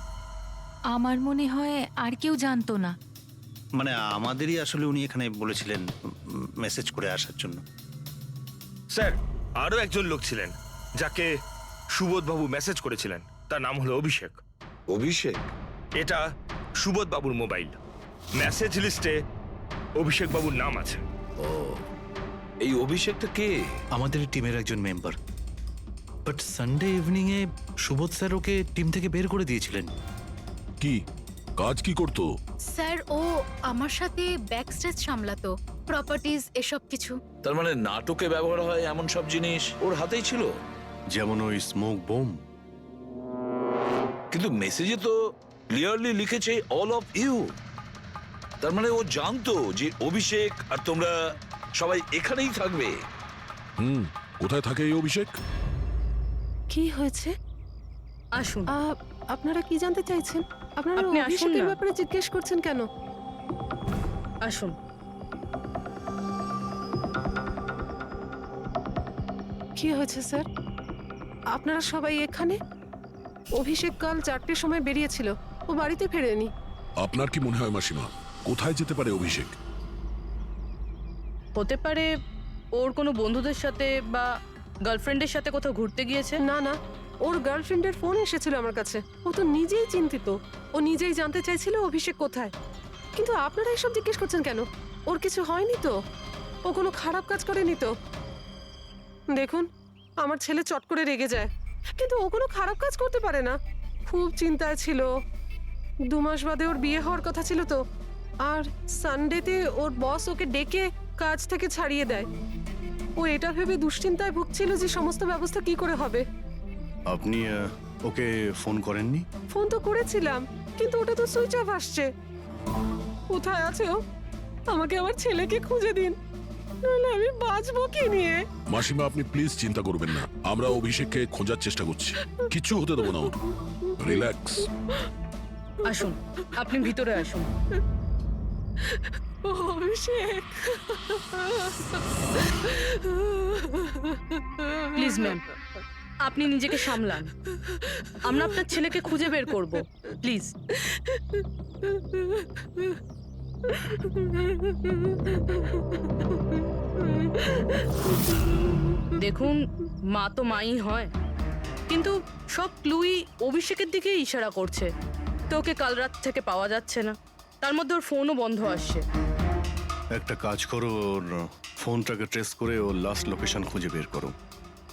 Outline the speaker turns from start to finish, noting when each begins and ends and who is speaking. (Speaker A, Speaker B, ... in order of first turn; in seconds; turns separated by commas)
Speaker A: 0.9-2.9, Speaker B: 3.8-7.6, Speaker C: 9.0-11.3, Speaker C: 12.0-14.4, Speaker D: 14.9-15.4, Speaker C: 16.8-17.7, Speaker C: 18.4-19.1, Speaker C: 20.0-21.0, Speaker D: 21.4-21.8, Speaker D: 22.6-23.5, Speaker E: 23.9-25.1, Speaker E: 26.2-29.9, Speaker F: 31.6-32.3, Speaker G: 32.7-37.1, Speaker D: 37.4-40.5, Speaker H: 41.1-42.4, Speaker D: 44.3-45.1, Speaker D: 45.7-47.5, Speaker D: 48.6-51.1, Speaker D: 51.8-52.9, Speaker F: 53.8-55.3, Speaker I: 56.7-57.3, Speaker J: 58.4-58.7, Speaker I: 58.7-62.9, Speaker J: 61.0-61.8, Speaker J: 64.5-64.7, Speaker I: 69.8-70.4, Speaker I: 71.5-72.5, Speaker I: 73.5-76.5, Speaker F: 77.0-79.5, Speaker J: 81.6-82.1, Speaker J: 82.8-84.3, Speaker J: 84.9-86.4, Speaker I: 86.4-92.5, Speaker I: 93.2-95.9, Speaker I: 96.7-97.9, Speaker I: 99.3-99.7, Speaker I: 100.2-103.5, Speaker I: 104.1-105.1, Speaker I: 106.1-107.8, Speaker I: 108.4-112.3, Speaker I: 113.2-116.2, Speaker H: 117.1-119.2, Speaker I: 119.5-122.1, Speaker I: 123.3-124.0, Speaker I: 124.7-126.2, Speaker I: 126.8-128.4, Speaker F: 128.7-133.4, Speaker F: 134.0-134.7, Speaker J: 135.8-137.5, Speaker I: 139.4-141.7, Speaker I: 142.7-143.9, Speaker J: 145.0-145.4, Speaker J: 146.2-147.3, Speaker J: 148.2-150.5, Speaker J: 159.2-159.6, Speaker J: 160.1-161.1, Speaker J: 161.9-164.9, Speaker J: 165.5-169.0, Speaker H: 170.2-174.3